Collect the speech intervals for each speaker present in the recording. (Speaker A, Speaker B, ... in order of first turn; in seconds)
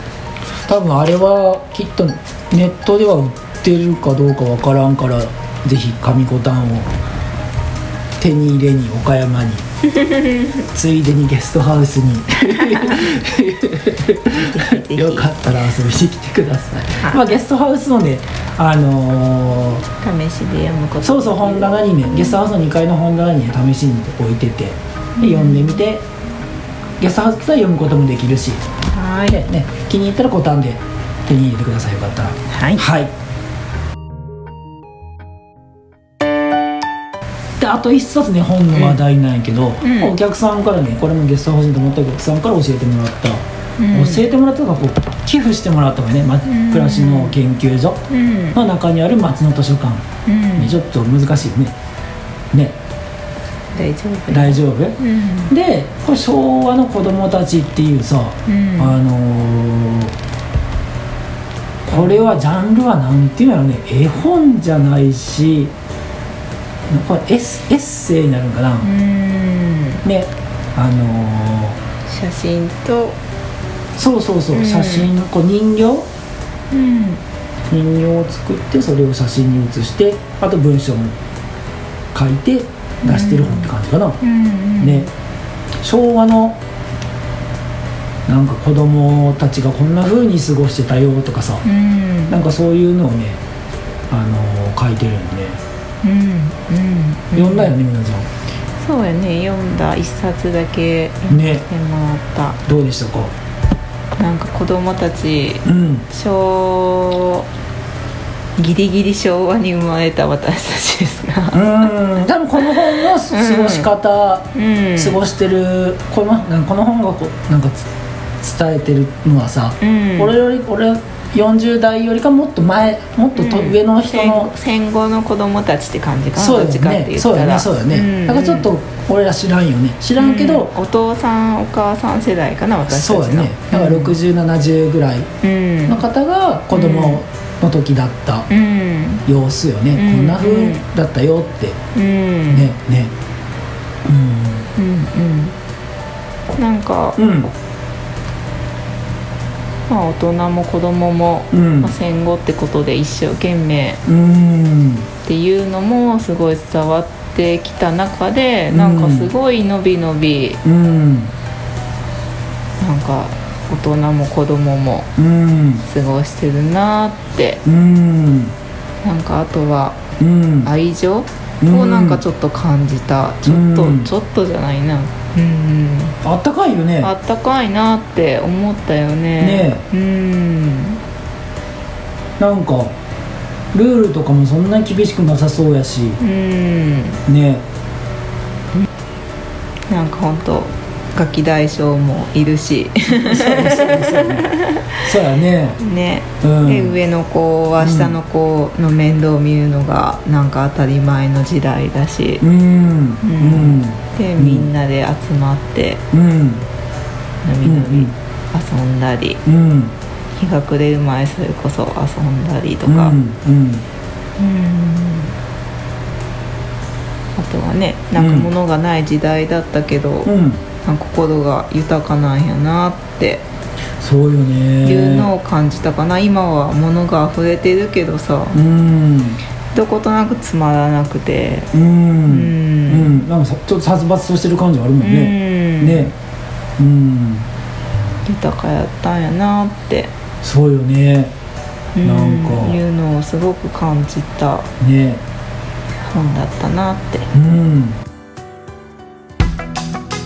Speaker A: 0.6-7.0, 8.2-9.7, 10.7-19.9, 21.0-26.0, 27.0-28.6, 29.3-33.1, 37.6-48.0, 48.5-51.7, 52.5-52.8, 54.3-60.1, 61.8-65.7, 66.9-68.9, 70.0-71.8, 74.0-76.1, 77.7-81.2, 82.1-84.2, 84.8-85.1, 85.8-86.6, 88.3-91.6, 92.3-93.4, 94.1-95.6, 97.3-98.3, 101.3-101.6, 102.6-103.3, 105.6-106.0, 111.5-117.8, 118.4-124.5, 126.3-130.7, 132.8-135.3, 135.9-138.5, 139.2-141.8, 142.5-143.1, 144.0-144.7, 147.2-147.5, 151.5-151.9, 154.0-155.1, 158.7-159.3, 160.6-161.3, 165.2-165.8, 167.6-168.5, 170.2-170.7, 171.6-172.2, 173.4-174.1, 176.2-177.1, 179.4-179.8, 182.4-182.9, 183.7-186.2, 187.3-187.6, 193.1-195.8, 196.4-197.0, 197.8-198.2, 202.4-204.7, 206.1-206.6, 207.6-208.1, 209.4-209.9, 212.9-213.8, 218.2-218.5, 220.2-220.6, 224.0-225.3, 228.5-229.4, 231.7-236.1, 236.8-237.5, 240.4-241.3, 242.0-242.8, 244.8-245.2, 247.3-248.0
Speaker B: 9.9-10.6, 12.7-13.0, 14.3-15.5, 17.0-17.4, 20.0-21.8, 25.2-25.8, 28.9-29.4, 32.5-32.8, 38.7-39.0, 39.8-40.1, 43.8-44.2, 46.5-47.4, 48.1-48.6, 50.2-50.8, 53.7-55.5, 58.5-59.0, 61.9-62.2, 68.8-70.0, 72.1-73.2, 74.5-75.1, 76.7-77.2, 83.0-85.1, 91.6-92.4, 96.0-97.7, 98.8-102.6, 104.2-107.5, 108.6-111.9, 112.6-113.9, 114.5-115.2, 119.8-120.3, 123.3-128.7, 130.2-134.2, 135.4-136.0, 136.7-137.2, 138.5-139.2, 139.9-140.8, 141.9-142.7, 144.8-145.5, 146.5-147.2, 149.9-154.0, 155.2-160.6, 162.8-165.1, 165.8-167.6, 169.0-170.0, 170.6-176.2, 177.0-181.0, 186.2-187.2, 189.9-195.1, 195.8-202.4, 203.2-206.0, 207.4-209.4, 210.4-213.2, 214.4-215.3, 217.3-220.3, 220.8-223.4, 224.8-228.6, 229.7-231.7, 232.2-233.2, 235.0-236.1, 238.2-240.1, 241.9-244.7, 246.0-247.3